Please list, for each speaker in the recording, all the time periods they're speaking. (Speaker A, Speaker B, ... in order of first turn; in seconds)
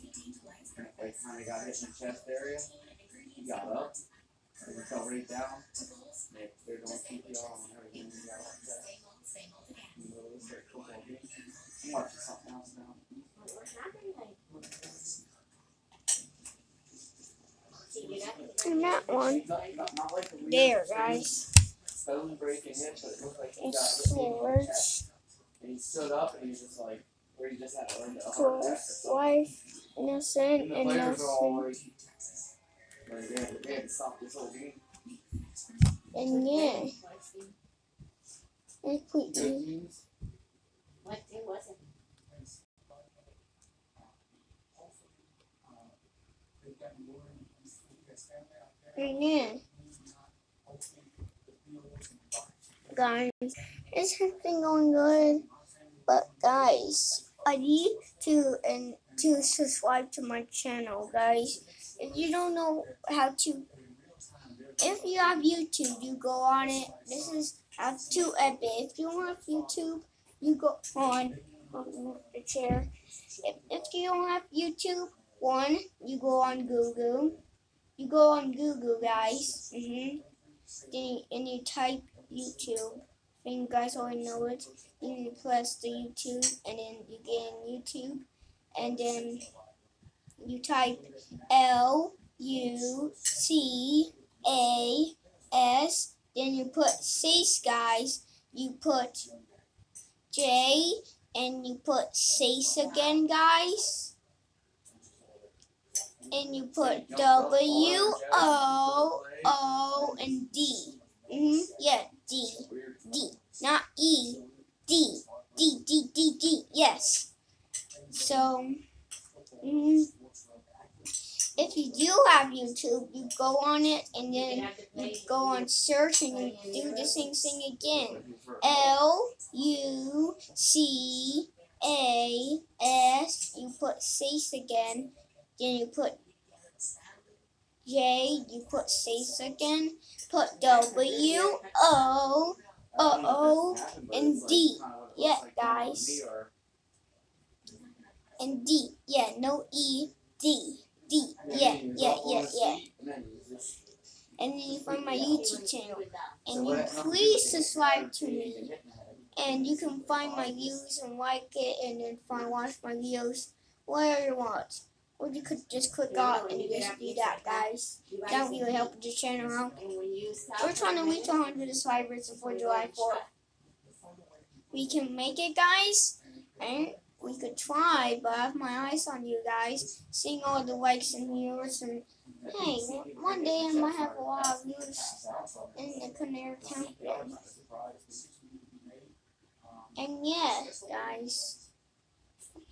Speaker A: 0.7-2.7, 3.4-4.0, 4.6-5.6, 6.3-9.0, 9.9-13.1, 19.2-21.4, 22.0-25.1, 25.6-29.1, 30.6-31.9, 33.1-34.8, 39.3-40.0, 105.0-105.5, 106.6-109.6, 112.7-113.5, 127.9-128.9, 142.9-146.5, 151.4-153.8, 156.5-160.5, 182.4-186.1, 186.6-188.3, 190.6-191.5
Speaker B: 13.2-14.5, 17.9-19.8, 36.2-37.6, 41.0-41.8, 124.3-125.6, 126.3-127.3, 140.6-141.9, 154.9-156.4, 166.1-168.9, 169.7-171.3, 172.3-173.3
Speaker C: 18.6-19.5, 20.4-21.5, 23.6-25.0, 28.2-31.7, 36.1-37.0, 38.8-39.7, 48.9-49.6, 52.9-55.5, 56.1-63.7, 64.8-72.9, 73.4-77.4, 78.0-80.2, 80.9-89.5, 90.4-99.3, 100.3-104.1, 106.3-117.3, 118.1-118.8, 119.6-120.1, 121.5-136.2, 137.8-146.2, 148.4-152.8, 154.4-158.7, 159.3-169.8, 170.6-173.2, 174.7-185.2, 185.8-187.4, 189.9-191.6